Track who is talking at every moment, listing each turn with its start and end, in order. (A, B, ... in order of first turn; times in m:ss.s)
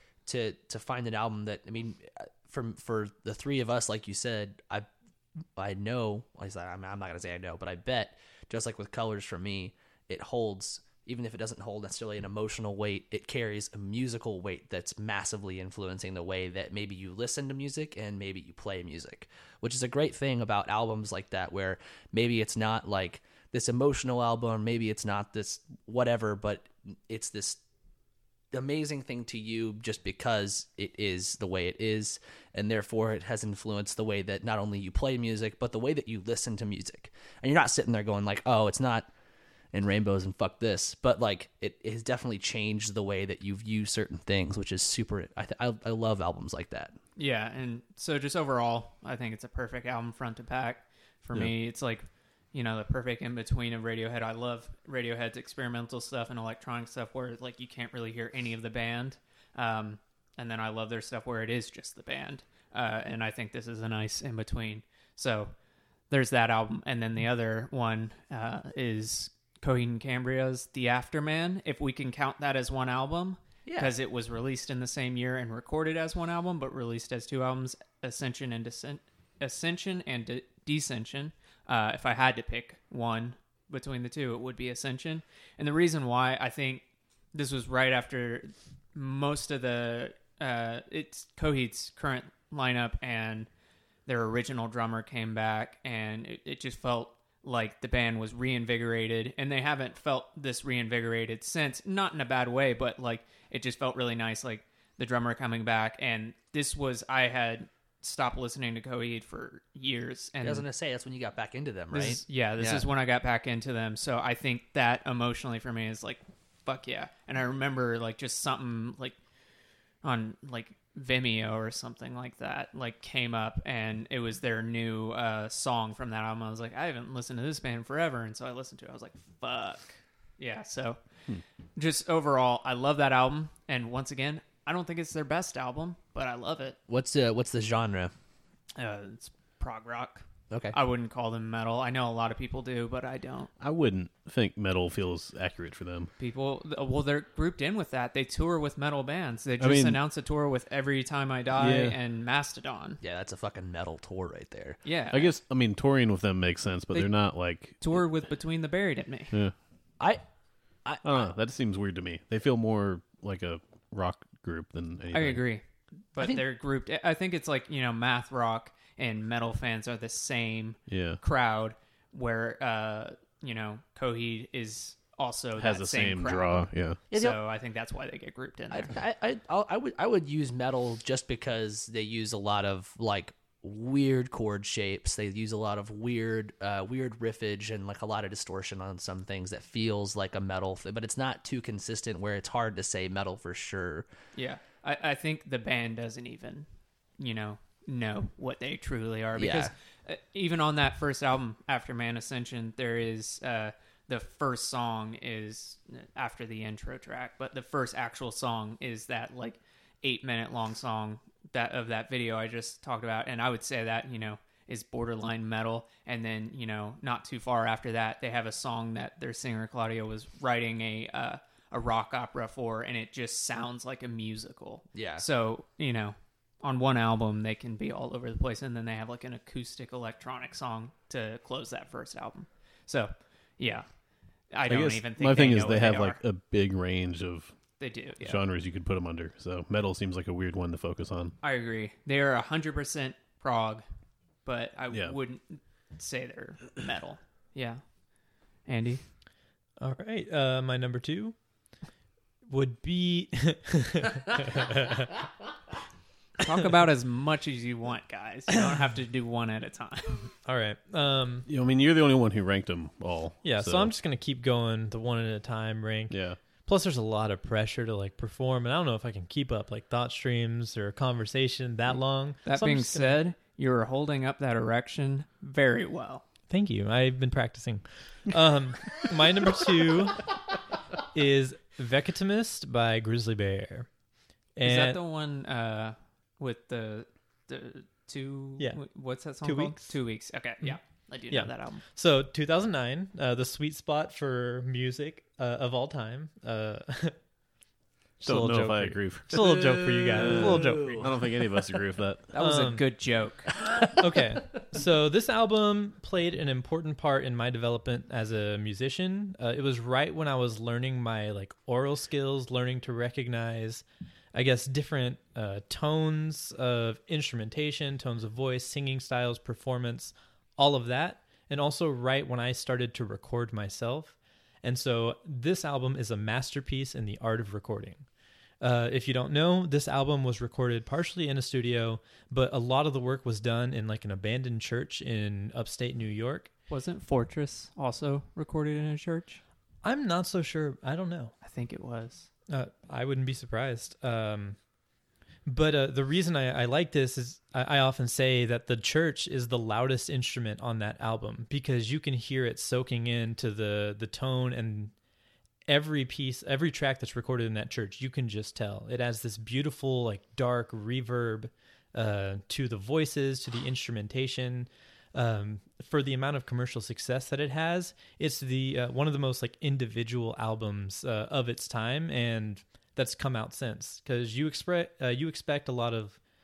0:00.3-0:04.9 A
0:05.6-0:27.6 A
0:28.5-0:39.1 A
0:39.7-0:46.9 A
0:47.2-1:05.5 B
1:06.1-1:33.5 B
1:13.6-1:13.9 A
1:34.1-1:50.6 B
1:50.4-1:52.8 A
1:51.9-1:59.2 B
2:00.0-2:11.0 B
2:11.8-2:16.8 B
2:16.9-2:18.1 A
2:18.8-2:23.5 B
2:20.5-2:20.8 A
2:23.6-2:26.1 C
2:26.2-2:33.0 B
2:29.6-2:30.0 C
2:31.6-2:32.0 C
2:33.0-2:34.8 A
2:34.8-2:35.4 B
2:35.1-2:37.8 C
2:37.8-2:39.3 B
2:40.8-2:41.3 A
2:41.0-2:45.5 C
2:45.1-2:45.6 B
2:46.1-2:58.9 B
2:46.2-2:46.4 A
2:50.9-2:51.2 C
2:55.6-2:57.0 C
2:57.1-2:57.4 A
2:58.7-3:14.1 A
3:14.4-3:16.7 B
3:17.2-3:53.9 B
3:19.4-3:19.7 A
3:44.9-3:45.2 A
3:54.5-3:56.2 B
3:54.7-3:57.5 C
3:57.8-3:58.4 B
3:58.2-4:01.4 C
4:01.4-4:03.8 B
4:04.4-4:07.8 B
4:08.6-4:09.0 B
4:09.8-4:11.4 D
4:12.5-4:15.1 D
4:16.4-4:20.3 B
4:20.4-4:21.5 D
4:21.5-4:23.9 C
4:23.4-4:33.2 D
4:26.1-4:26.4 C
4:32.4-4:36.2 B
4:36.5-4:40.4 D
4:41.0-4:43.9 D
4:44.6-4:45.0 D
4:44.6-4:51.8 B
4:49.4-4:49.9 D
4:51.3-4:57.2 D
4:58.2-5:01.1 D
4:58.2-5:02.3 C
5:00.1-5:01.2 A
5:02.3-5:03.5 B
5:02.4-5:02.9 D
5:03.9-5:28.1 D
5:28.6-5:36.5 D
5:36.7-5:39.4 B
5:39.8-5:41.3 D
5:41.4-5:42.3 B
5:42.5-5:44.6 D
5:45.5-5:54.9 D
5:55.7-6:16.2 D